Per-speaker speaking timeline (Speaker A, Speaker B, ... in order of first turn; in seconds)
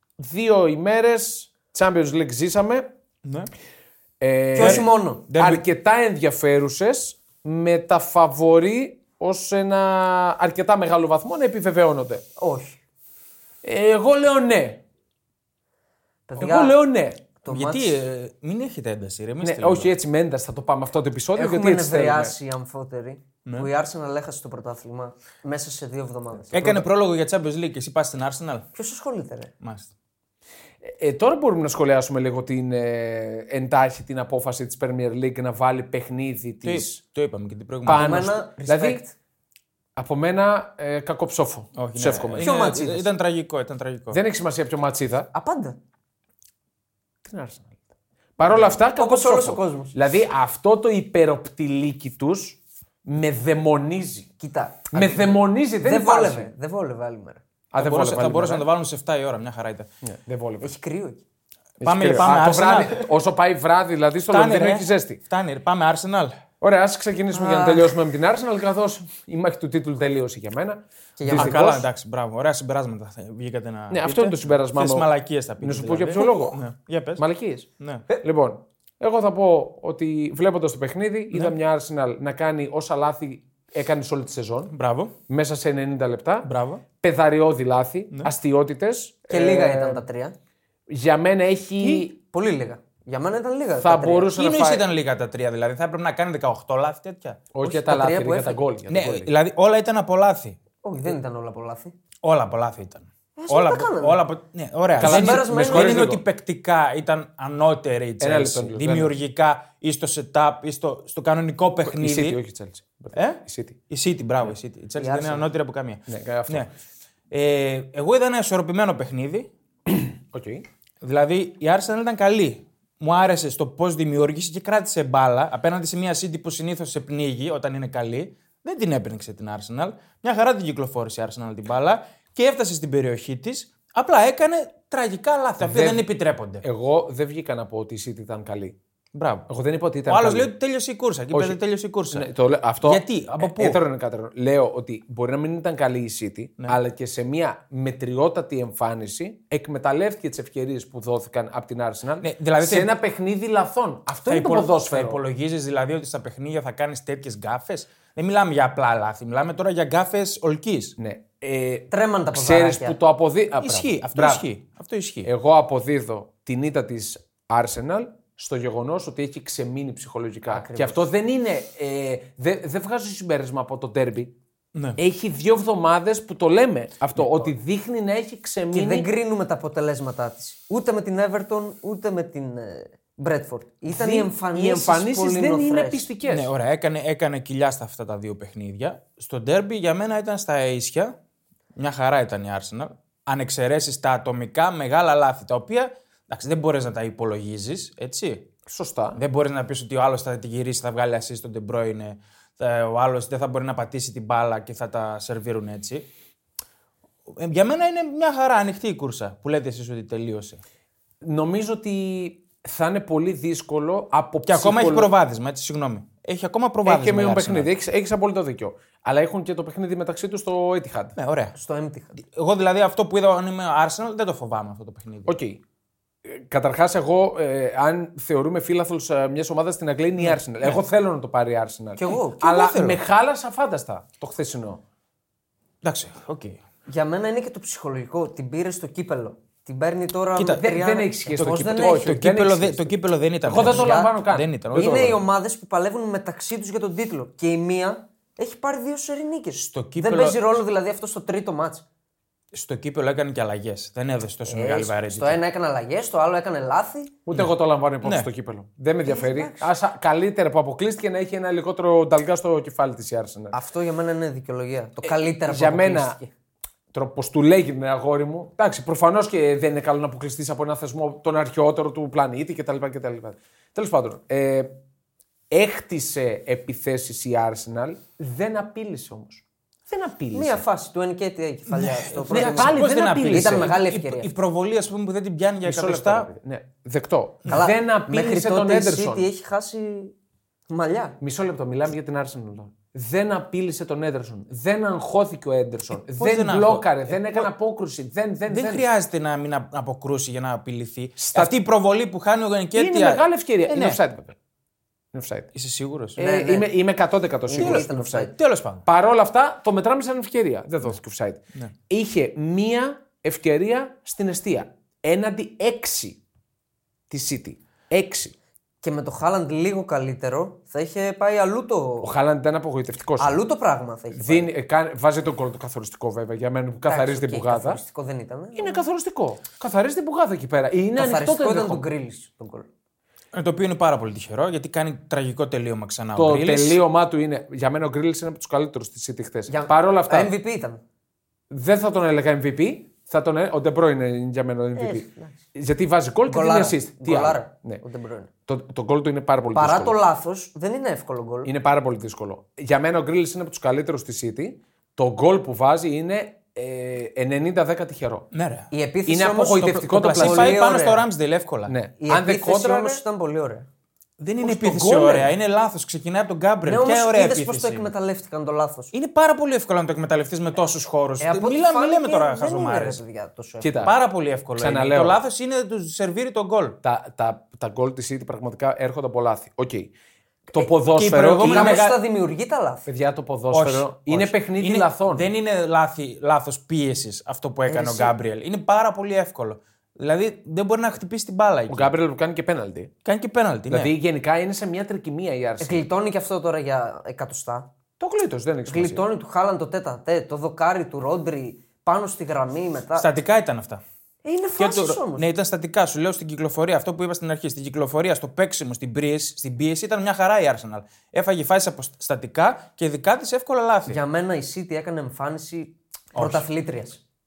Speaker A: 0.2-2.9, 4.2-12.2, 13.6-14.8, 16.4-17.2, 19.4-22.4, 30.8-37.0, 37.9-39.0, 40.0-42.5, 44.1-45.3, 47.2-47.8, 48.4-54.3, 54.9-56.5, 57.7-58.7, 60.0-60.7, 61.8-65.2, 66.6-71.9, 73.9-75.1, 75.6-76.6, 77.2-84.7, 85.3-86.5, 87.0-90.0, 90.9-92.1, 93.8-94.9, 97.5-99.3, 105.0-106.2, 108.2-109.2, 111.9-113.8, 116.1-116.7, 119.9-120.7, 135.6-136.0, 136.6-138.8, 139.5-140.5, 141.3-141.6, 142.1-155.2, 161.0-164.5, 165.2-174.3, 175.0-179.1, 183.9-186.5, 198.7-199.2, 211.2-215.1, 216.8-221.2, 225.3-225.6, 226.2-234.8, 240.6-245.2, 257.3-263.6, 265.0-266.2, 266.9-274.7, 275.5-280.6, 282.3-283.8, 285.6-289.3, 291.2-298.9, 301.2-301.6, 302.8-304.4, 305.1-305.5, 306.2-308.3, 308.9-316.2, 317.1-318.3, 322.0-323.4, 324.1-327.8, 328.6-331.8, 336.2-340.3, 341.5-347.8, 348.5-350.0, 351.4-358.3, 359.1-360.6, 361.7-363.0, 364.4-365.3, 373.6-374.0, 374.6-375.2, 376.8-379.9, 380.5-381.9, 382.9-385.3, 391.7-392.9, 393.7-395.9, 398.0-399.1
Speaker B: 3.2-3.5, 4.6-5.7, 17.5-19.9, 26.5-28.7, 29.6-29.9, 36.6-38.4, 41.8-44.2, 57.8-59.9, 61.8-63.1, 64.3-66.4, 71.3-77.2, 77.8-78.0, 84.7-85.2, 86.4-86.8, 94.3-97.4, 98.9-100.6, 102.2-112.4, 113.1-116.7, 117.3-119.5, 121.0-136.6, 139.1-139.5, 140.1-142.3, 142.8-143.8, 152.2-152.9, 154.3-160.9, 163.6-165.3, 174.8-175.0, 177.2-177.5, 186.2-191.2, 191.8-198.5, 199.2-206.1, 207.3-210.6, 214.5-217.7, 221.2-221.6, 222.2-225.4, 230.2-230.8, 232.1-233.0, 235.8-236.6, 240.4-240.7, 241.3-245.2, 249.5-250.6, 252.5-255.4, 258.0-258.3, 281.7-286.3, 296.1-297.5, 298.5-304.0, 305.6-306.2, 307.6-308.9, 333.3-336.8, 358.3-358.7, 359.6-361.8, 364.2-367.9, 368.9-373.0, 373.8-376.8, 380.9-382.0, 383.5-391.9, 393.1-393.9, 403.0-403.8, 404.6-414.0, 416.1-416.5
Speaker C: 4.5-5.2, 12.4-12.8, 16.3-16.8, 17.4-18.0, 21.4-26.8, 28.8-29.5, 37.9-39.1, 42.4-43.1, 45.3-45.8, 48.4-50.0, 54.4-57.4, 60.6-61.2, 67.3-68.0, 71.2-71.7, 89.3-90.4, 91.8-94.3, 97.6-98.6, 100.8-102.0, 103.4-104.2, 105.0-106.1, 115.0-115.5, 161.9-163.0, 170.5-171.0, 178.7-186.1, 221.6-222.2, 232.0-232.5, 236.9-242.1, 243.6-244.2, 244.7-251.8, 254.5-257.1, 259.0-259.7, 263.5-266.3, 280.3-284.3, 287.5-290.1, 290.7-291.2, 306.2-306.7, 307.5-308.3, 318.8-322.1, 323.2-324.5, 326.9-328.8, 331.0-332.7, 339.5-340.8, 344.8-345.4, 346.3-348.3, 349.6-351.5, 358.7-361.1, 362.0-363.7, 366.6-368.9, 371.2-373.9, 381.4-382.9, 387.7-388.1, 395.6-397.7, 398.7-403.1, 404.2-405.3, 413.9-417.0